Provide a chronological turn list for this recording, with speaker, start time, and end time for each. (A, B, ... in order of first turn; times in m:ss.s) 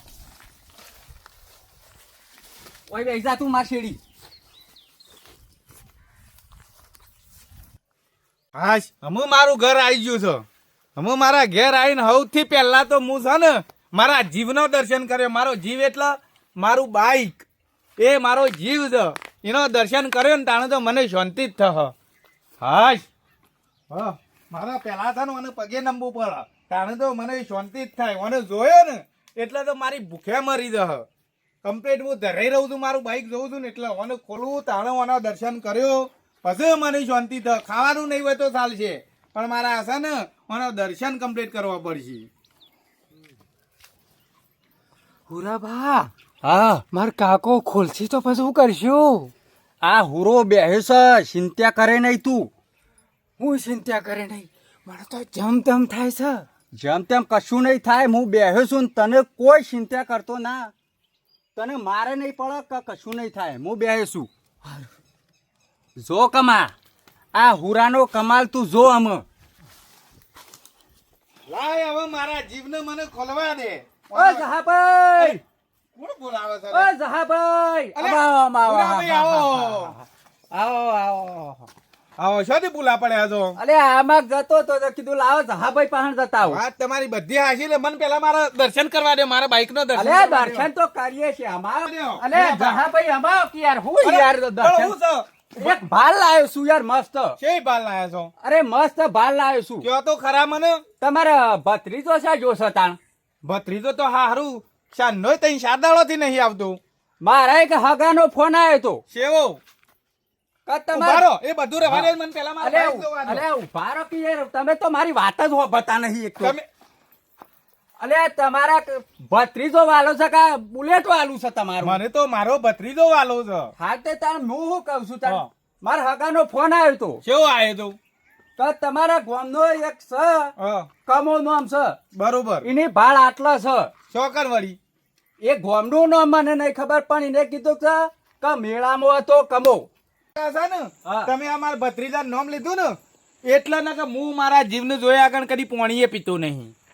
0:02.9-0:04.0 A
0:08.5-0:10.4 B
0:11.0-0:17.4 B
0:18.0-0:21.9 B
0:22.6-0:23.0 B
0:23.9-0:31.1 B
0:31.6-0:42.3 B
0:45.3-0:46.1 C
0:46.4-0:46.8 A
0:46.9-0:49.3 C
0:49.8-0:52.5 A
0:53.4-0:56.4 C
0:56.8-1:00.7 A
1:01.6-1:04.3 A
1:06.0-1:06.7 A
1:07.4-1:09.2 A
1:11.5-1:14.5 B
1:14.1-1:15.4 A
1:16.0-1:16.9 B
1:16.7-1:21.7 A
1:18.0-1:19.9 B
1:22.2-1:23.6 B
1:23.6-1:26.6 A
1:26.4-1:30.7 B
1:30.0-1:35.0 A
1:31.8-1:32.8 B
1:34.0-1:35.8 B
1:35.6-1:37.4 A
1:37.4-1:38.3 B
1:38.4-1:39.9 A
1:39.8-1:40.8 B
1:41.0-1:43.0 A
1:43.4-1:46.8 B
1:47.2-1:49.0 A
1:49.1-1:49.6 B
1:50.7-1:51.3 A
1:50.9-1:53.4 B
1:51.8-1:52.1 A
1:52.6-1:56.6 A
1:56.4-1:56.7 B
1:58.0-2:02.0 A
2:01.8-2:03.7 B
2:03.8-2:07.2 A
2:07.2-2:08.0 B
2:08.6-2:10.5 A
2:10.6-2:10.9 B
2:11.0-2:12.0 A
2:12.1-2:12.7 B
2:12.6-2:13.9 A
2:14.1-2:14.8 B
2:15.4-2:19.9 A
2:20.4-2:26.8 B
2:21.0-2:21.3 A